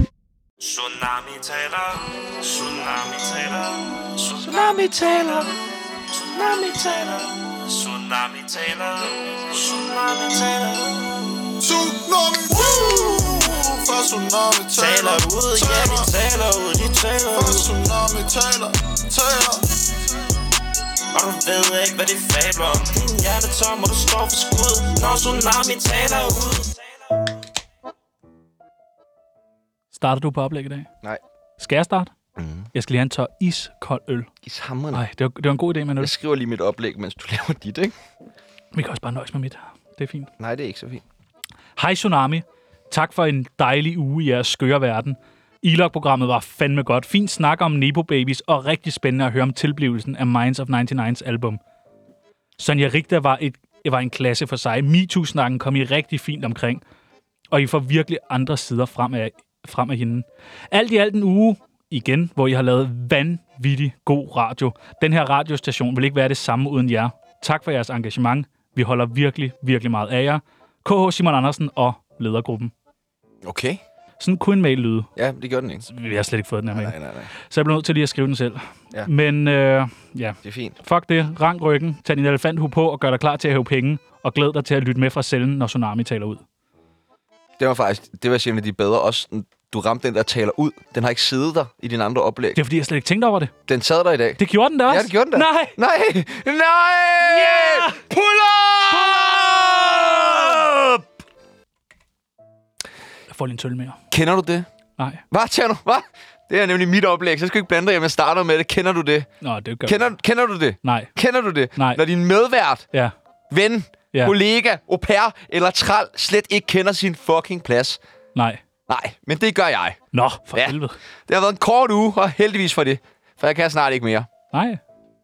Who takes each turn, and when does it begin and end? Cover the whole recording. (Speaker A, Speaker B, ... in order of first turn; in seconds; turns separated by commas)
Speaker A: 0.6-11.5, Speaker B: 4.4-5.5, Speaker B: 6.3-6.8, Speaker C: 11.6-16.1, Speaker A: 14.8-17.7, Speaker C: 17.3-19.8, Speaker A: 21.1-26.8, Speaker D: 29.9-30.9, Speaker D: 31.6-32.1, Speaker B: 32.4-32.7, Speaker D: 32.7-34.3, Speaker B: 34.4-35.0, Speaker D: 34.9-36.1, Speaker B: 36.0-37.9, Speaker D: 38.7-40.3, Speaker B: 40.4-41.0, Speaker D: 41.8-51.6, Speaker D: 52.6-56.8, Speaker D: 57.5-72.7, Speaker B: 73.4-73.8, Speaker D: 74.2-75.1, Speaker B: 75.2-75.8, Speaker D: 75.8-86.4, Speaker B: 76.7-77.3, Speaker B: 80.4-80.8, Speaker B: 87.6-92.6, Speaker D: 92.5-93.5, Speaker B: 93.7-101.0, Speaker D: 94.4-95.8, Speaker D: 97.2-98.0, Speaker D: 103.3-104.0, Speaker B: 104.1-104.7, Speaker D: 105.0-105.2, Speaker B: 105.3-109.3, Speaker D: 109.4-110.1, Speaker B: 109.8-112.9, Speaker D: 110.8-111.1, Speaker D: 111.8-112.0, Speaker B: 113.5-118.0, Speaker D: 118.3-118.6, Speaker B: 118.9-120.0, Speaker D: 120.1-121.0, Speaker B: 121.3-124.3, Speaker D: 124.5-124.8